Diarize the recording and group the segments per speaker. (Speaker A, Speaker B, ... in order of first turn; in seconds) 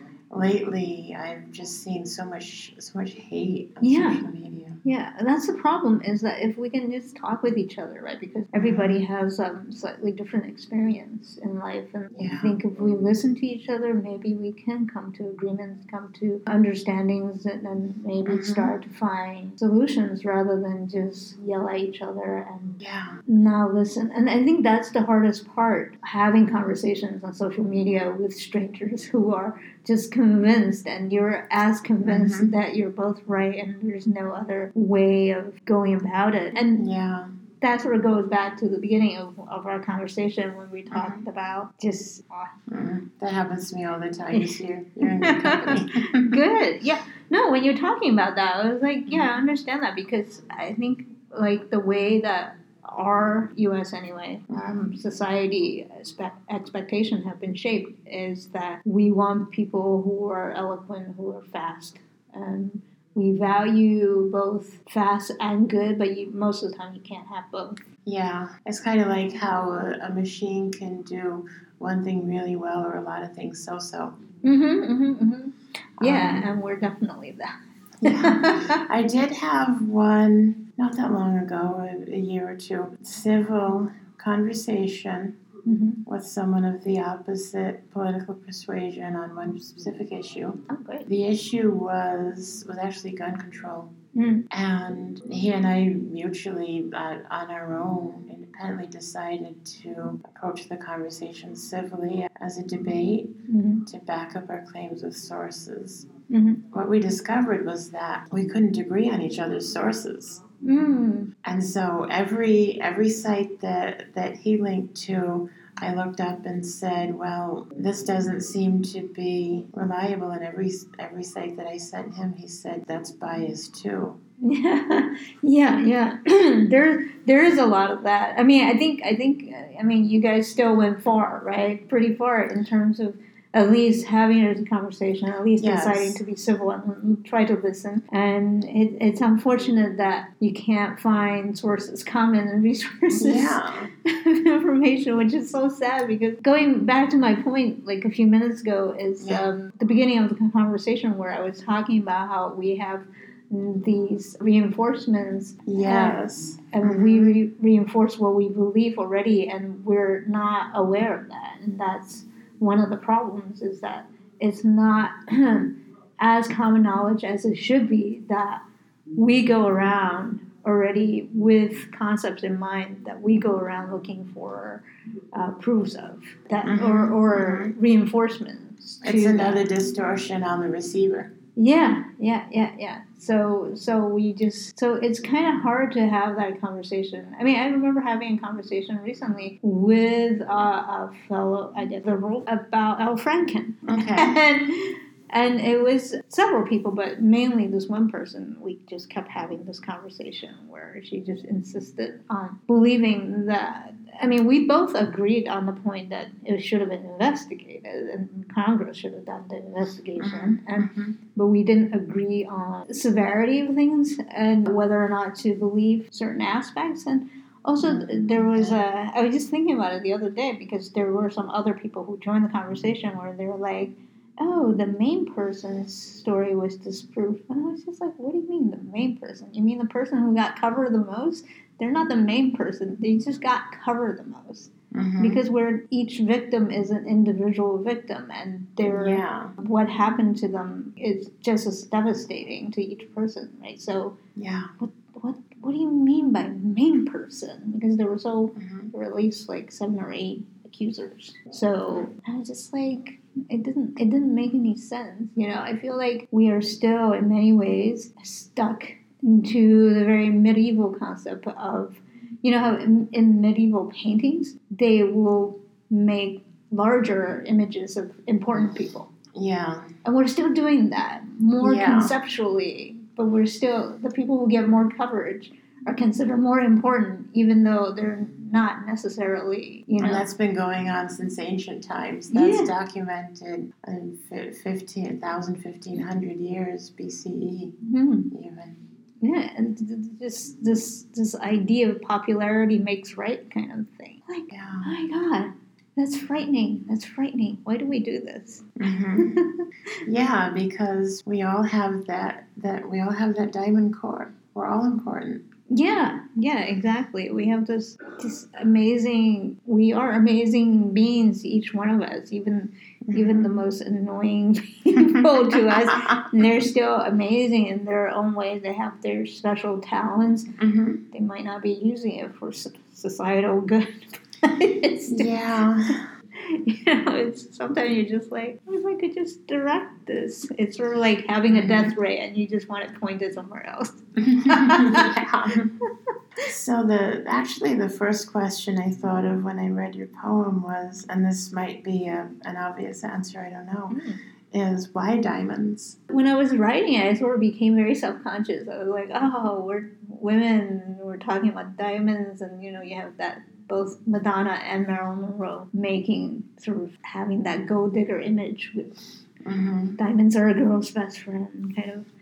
Speaker A: 0.3-4.8, 8.6-9.0, 12.1-12.5, 18.2-18.7, 22.8-23.2, 32.0-32.5, 36.8-37.3, 40.9-41.2, 42.7-46.4, 54.5-54.9, 68.0-74.2, 76.0-76.5, 78.0-85.4, 86.0-93.9, 94.5-106.1, 106.7-110.4, 111.4-124.2, 135.6-136.2, 143.2-143.9, 149.2-149.4, 155.7-157.4, 176.6-177.7, 179.0-181.3, 193.9-194.4, 210.2-211.1, 217.8-218.8, 234.9-235.4, 238.9-239.5, 244.4-244.7, 248.6-248.9, 269.3-269.9, 271.6-272.2, 280.0-287.7, 288.3-288.8, 294.5-294.9, 298.8-299.4, 300.0-305.4, 313.1-313.5, 315.7-316.2, 320.6-321.0, 325.1-326.1, 331.5-331.9, 334.2-335.7, 336.4-344.0, 344.5-346.0, 359.4-360.0
Speaker B: 3.8-4.2, 4.8-36.9, 37.6-42.5, 44.3-67.8, 74.4-77.5, 78.0-78.8, 85.6-86.0, 90.7-91.1, 94.1-94.5, 103.5-103.8, 106.3-106.6, 110.6-111.3, 124.4-168.6, 169.2-179.6, 181.6-244.2, 244.8-269.1, 270.0-280.3, 282.3-282.7, 287.8-288.3, 289.2-300.0, 305.7-320.5, 321.1-325.4, 326.4-335.1, 343.9-344.2, 346.1-359.0, 360.0-362.1